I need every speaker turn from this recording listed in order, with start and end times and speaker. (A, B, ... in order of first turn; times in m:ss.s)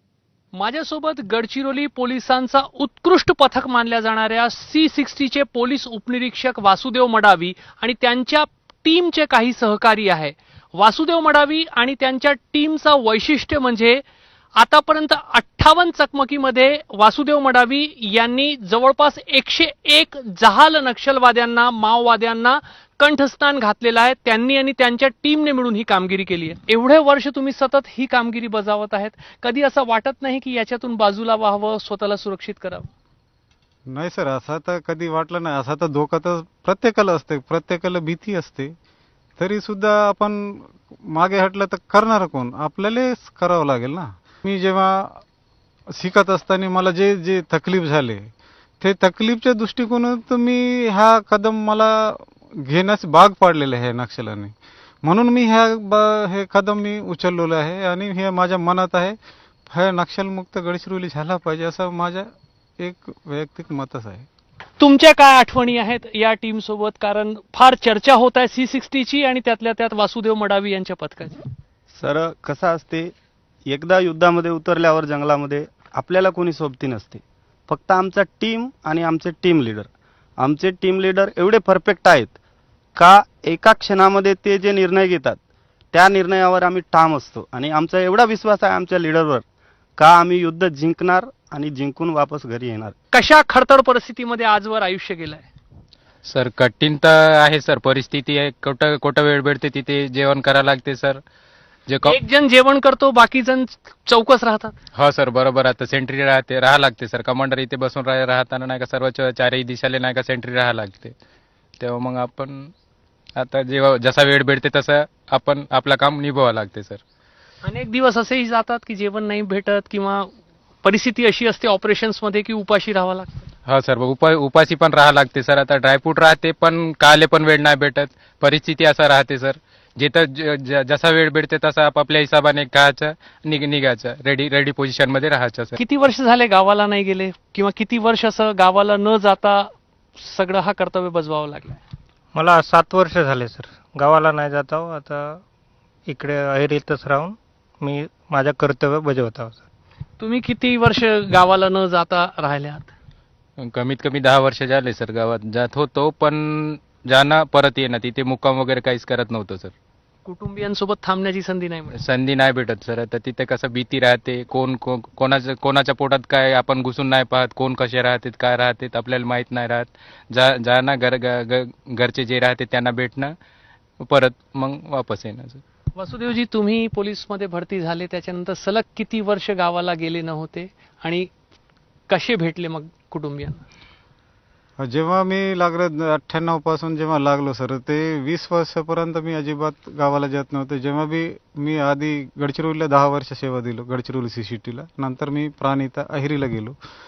0:00.6-0:14.0 A
0:14.6-0:32.9 A
0:33.9-0:38.7 B
0:39.4-0:45.2 B
0:46.0-0:59.2 B
0:59.7-1:04.3 B
1:04.8-1:11.4 A
1:11.9-1:13.1 C
1:13.7-1:22.4 C
1:23.0-1:25.4 C
1:25.9-1:29.4 C
1:30.0-1:32.9 C
1:33.1-1:35.4 A
1:36.3-1:41.2 D
1:41.9-1:42.2 D
1:42.0-1:44.7 A
1:44.9-1:51.1 D
1:51.8-1:52.7 D
1:53.4-1:57.0 D
1:57.6-2:00.3 A
2:00.8-2:03.4 A
2:03.7-2:15.7 D
2:15.8-2:21.8 A
2:22.3-2:25.4 E
2:26.1-2:29.6 E
2:30.2-2:32.9 A
2:33.6-2:39.7 D
2:40.2-2:42.0 A
2:42.0-2:53.3 D
2:54.0-2:55.6 D
2:56.0-3:01.3 A
3:02.1-3:03.6 A
3:04.8-3:16.7 B